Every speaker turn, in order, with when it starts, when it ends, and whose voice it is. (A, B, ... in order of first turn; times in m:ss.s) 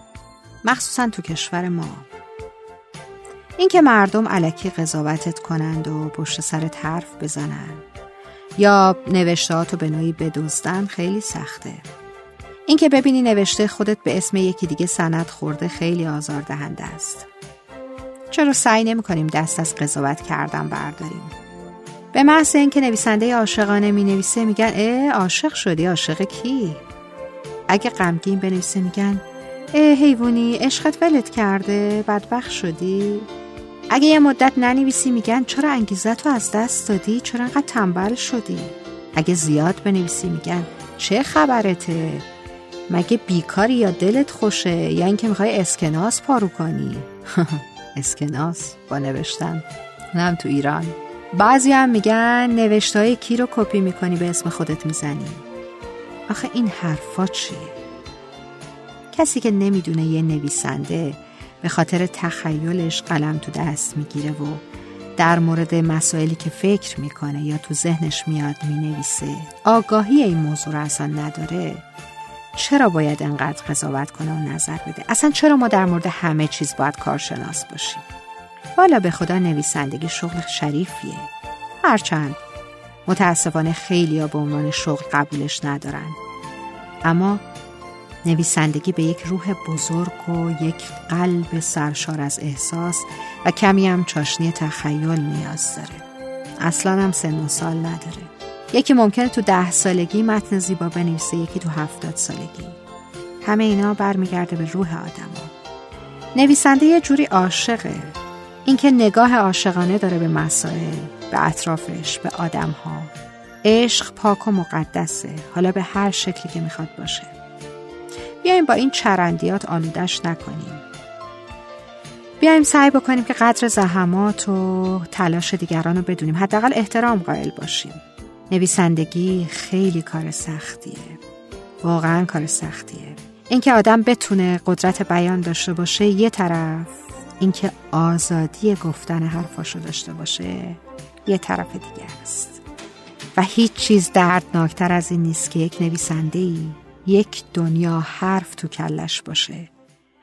0:00.6-0:02.1 A
0:03.6-0:07.9 A
0:08.6-0:11.9 A
0:12.7-0:17.3 A
0:18.3-0:21.4 A
0:22.1-0:26.8 A
0:27.7-0:33.3 A
0:33.9-0:42.3 A
0:42.9-0:55.4 A
0:56.3-0:57.8 A
0:59.1-1:04.6 A
1:05.2-1:11.9 A
1:12.6-1:18.1 A
1:18.8-1:22.4 A
1:23.1-1:26.2 A
1:27.0-1:27.4 A
1:28.2-1:36.1 A
1:36.6-1:42.8 A
1:43.4-1:45.5 A
1:46.4-1:53.1 A
1:53.6-1:57.3 A
1:58.4-2:00.8 A
2:02.4-2:11.2 A
2:11.8-2:22.6 A
2:23.4-2:29.7 A